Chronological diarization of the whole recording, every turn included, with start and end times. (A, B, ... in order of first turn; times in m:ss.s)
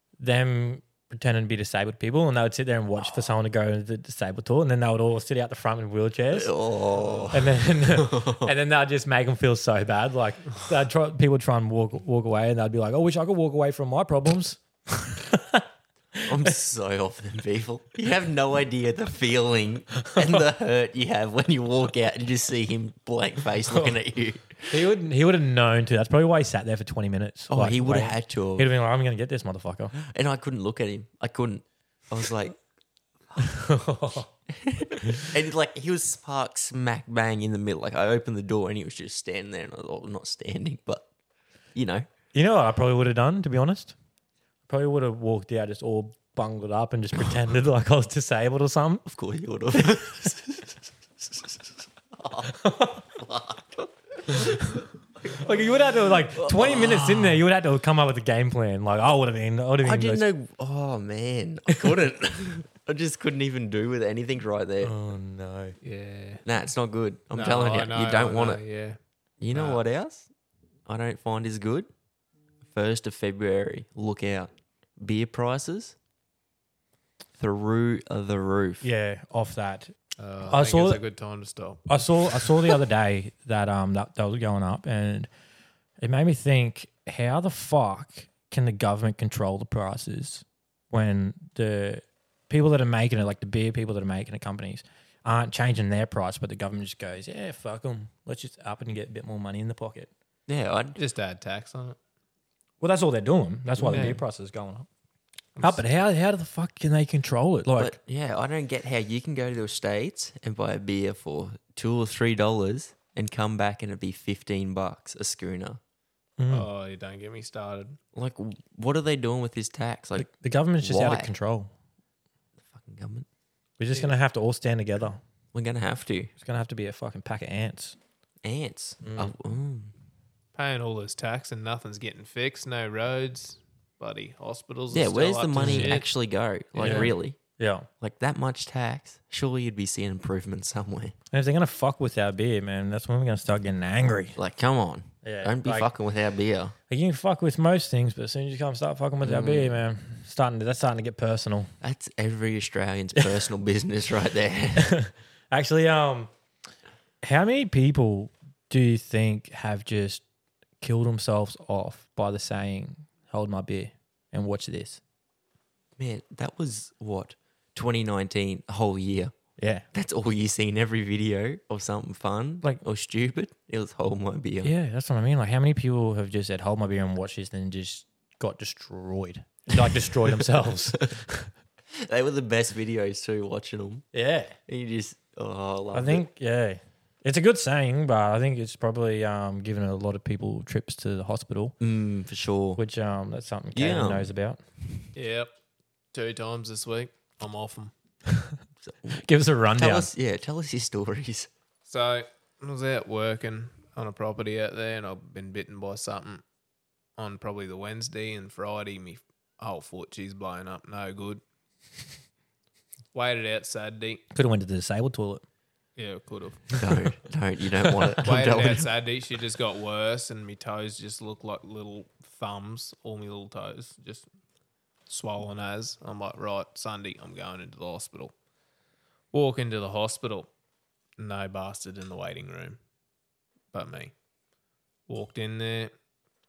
0:00.2-0:06.5 A
0:06.3-0:08.5 B
0:07.0-0:07.3 C
0:07.3-0:15.6 A
0:16.2-0:16.6 A
0:16.3-0:24.8 B
0:23.7-0:24.0 A
0:24.7-0:29.9 A
0:27.5-0:28.7 B
0:30.0-0:32.6 B
0:33.4-0:34.3 A
0:34.5-0:41.1 B
0:41.8-0:42.1 B
0:42.3-0:44.0 A
0:44.7-0:49.0 A
0:49.1-0:55.4 B
0:52.6-0:53.0 A
0:55.4-1:00.2 A
0:56.2-0:57.4 B
0:59.8-1:04.9 B
1:04.8-1:05.8 A
1:05.8-1:06.4 C
1:06.4-1:08.6 B
1:07.3-1:09.0 C
1:09.4-1:10.3 B
1:09.5-1:09.8 C
1:10.9-1:11.9 B
1:12.6-1:16.0 B
1:17.4-1:18.9 B
1:18.8-1:19.9 A
1:20.2-1:22.5 C
1:20.5-1:21.0 A
1:21.9-1:25.3 A
1:26.0-1:40.1 A
1:40.5-1:41.0 B
1:41.0-1:42.0 C
1:42.8-1:44.9 A
1:43.8-1:44.2 B
1:43.9-1:44.2 C
1:45.6-1:45.8 C
1:45.6-1:47.9 A
1:47.8-1:55.8 B
1:56.4-1:56.7 A
1:56.5-1:58.0 C
1:58.1-2:01.3 B
2:00.2-2:01.7 A
2:02.6-2:03.3 B
2:03.8-2:05.2 A
2:05.5-2:06.3 B
2:06.4-2:08.0 A
2:08.4-2:09.9 B
2:09.0-2:09.3 A
2:10.6-2:16.1 C
2:14.9-2:17.4 B
2:15.6-2:16.0 A
2:16.8-2:17.9 A
2:16.8-2:17.1 C
2:18.0-2:21.2 B
2:21.3-2:24.4 A
2:24.4-2:26.8 B
2:25.2-2:25.9 A
2:26.9-2:31.7 A
2:29.2-2:29.8 B
2:31.8-2:34.9 B
2:34.8-2:36.3 A
2:37.2-2:40.2 A
2:40.8-2:45.0 A
2:46.0-2:49.3 B
2:49.6-2:49.8 A
2:49.9-2:54.7 B
2:54.6-3:01.5 A
3:02.0-3:04.1 B
3:04.1-3:04.6 A
3:04.7-3:06.3 B
3:05.9-3:11.8 A
3:11.8-3:12.8 B
3:12.8-3:14.6 A
3:13.7-3:14.3 B
3:15.2-3:15.5 C
3:16.1-3:17.9 C
3:18.8-3:19.2 B
3:19.1-3:20.1 A
3:19.8-3:21.5 B
3:21.9-3:26.4 C
3:27.2-3:31.4 C
3:33.1-3:34.2 C
3:34.3-3:35.4 A
3:36.0-3:36.8 C
3:36.8-3:38.9 B
3:38.2-3:44.3 C
3:45.1-3:48.3 C
3:49.3-3:50.5 C
3:51.2-3:52.8 C
3:53.7-3:54.1 C
3:55.1-3:55.9 C